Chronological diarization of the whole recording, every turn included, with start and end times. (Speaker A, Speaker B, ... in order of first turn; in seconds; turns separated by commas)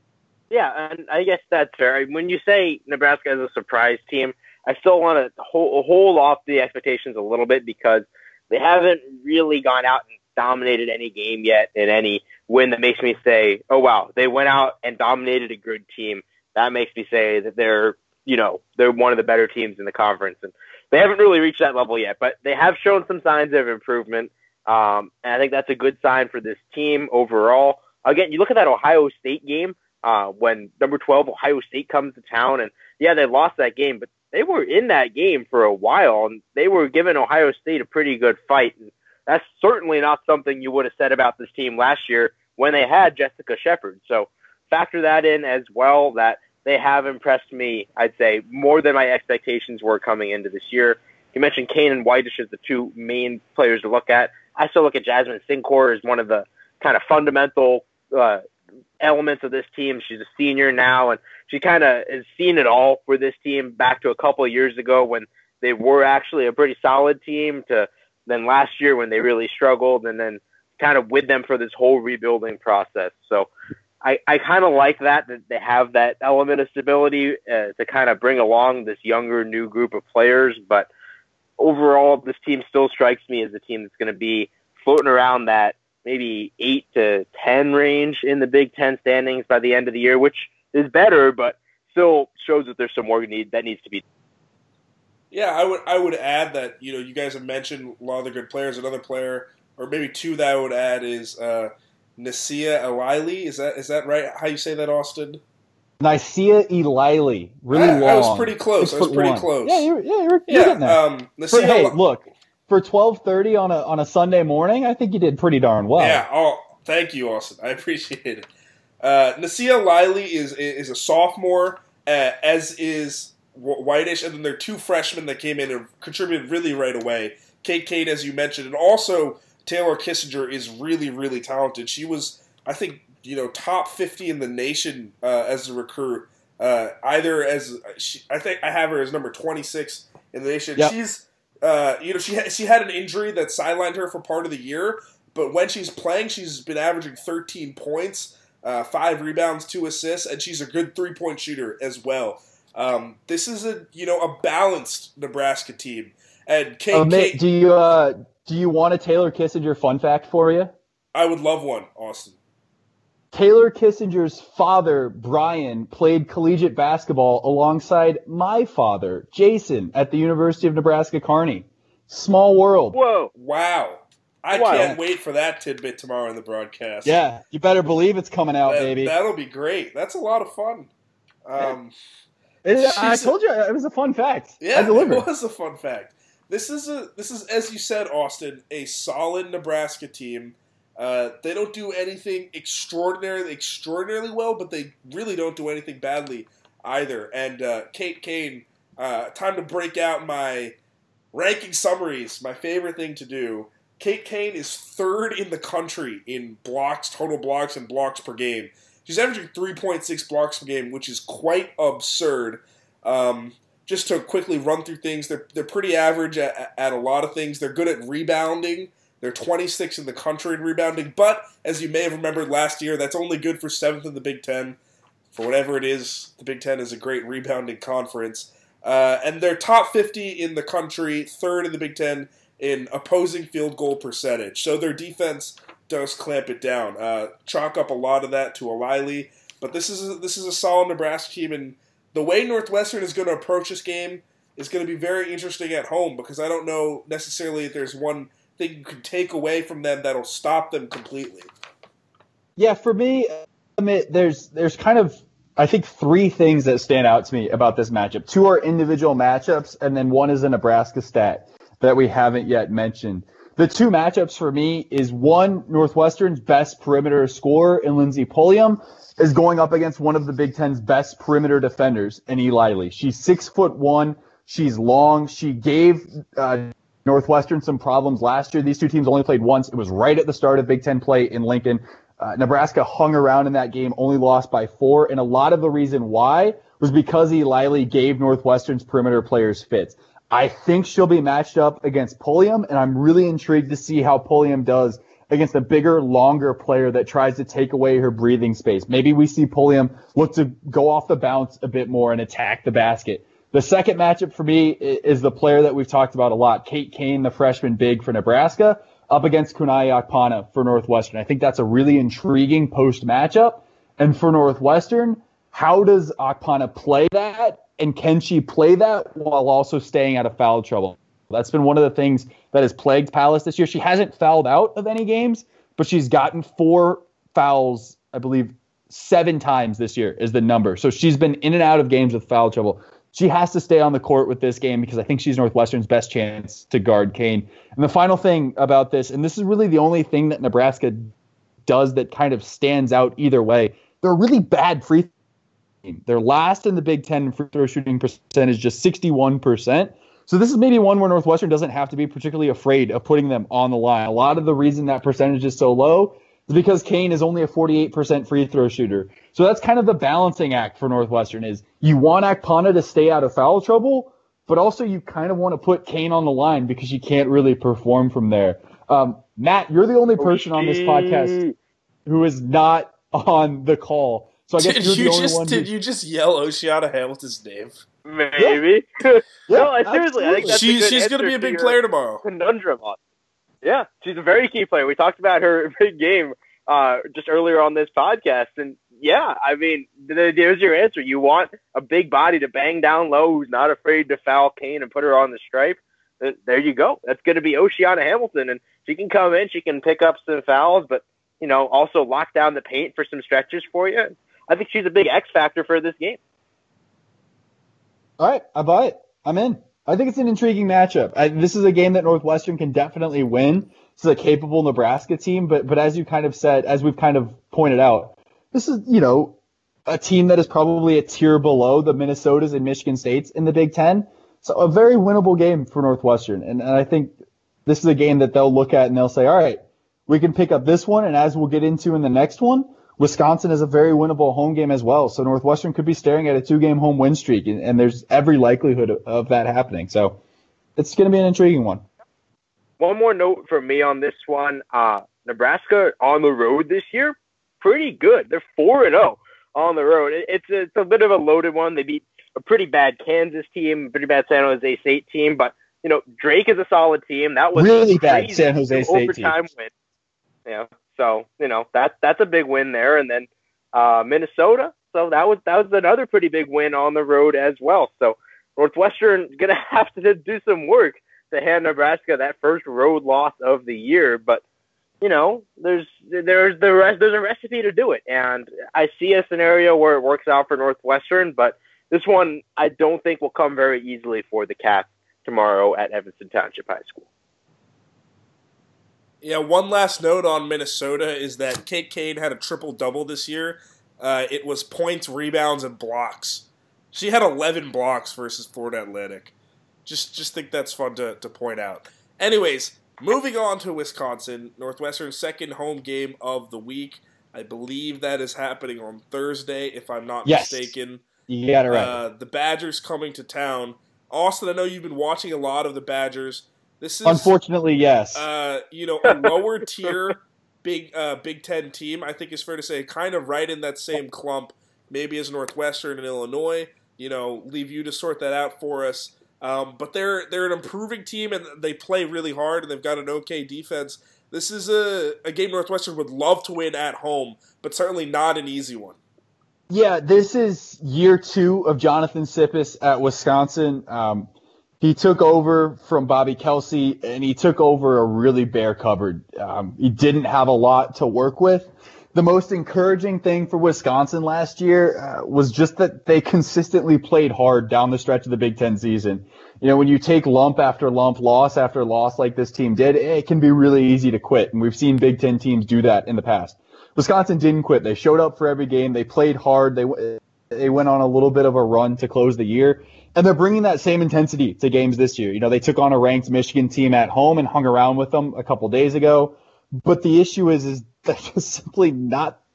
Speaker A: 0.5-58.4, Speaker A: 59.0-73.5, Speaker A: 74.0-80.9, Speaker A: 81.6-94.0, Speaker B: 95.3-105.4, Speaker C: 106.0-111.0, Speaker B: 107.7-109.9, Speaker B: 110.5-112.0, Speaker C: 111.5-116.2, Speaker B: 116.0-118.5, Speaker B: 119.0-157.4, Speaker C: 156.9-160.7, Speaker B: 161.1-162.3, Speaker C: 163.3-172.9, Speaker A: 172.9-173.3, Speaker B: 173.3-177.2, Speaker A: 174.5-174.9, Speaker C: 174.7-175.0, Speaker C: 177.0-179.1, Speaker B: 178.7-180.9, Speaker B: 181.4-181.9, Speaker C: 182.6-185.3, Speaker B: 182.8-183.3, Speaker B: 184.6-200.8, Speaker B: 201.3-224.8, Speaker B: 225.3-251.5, Speaker C: 252.6-341.1, Speaker C: 341.6-345.1, Speaker C: 345.8-371.4, Speaker A: 370.2-371.5, Speaker C: 372.1-375.7, Speaker B: 374.6-377.8, Speaker A: 378.0-383.0, Speaker C: 379.5-380.6, Speaker B: 380.4-382.2, Speaker A: 383.6-406.2, Speaker C: 408.2-427.1, Speaker C: 427.6-440.2, Speaker C: 440.8-441.8, Speaker A: 442.8-459.7, Speaker C: 457.5-459.4, Speaker A: 460.4-474.4, Speaker A: 475.0-487.1, Speaker B: 489.2-499.3, Speaker B: 499.9-511.0, Speaker C: 510.2-510.7, Speaker C: 511.3-512.0, Speaker B: 511.7-517.3, Speaker C: 517.0-518.2, Speaker B: 518.1-539.0, Speaker A: 519.0-519.3, Speaker C: 539.7-544.3, Speaker C: 544.8-582.4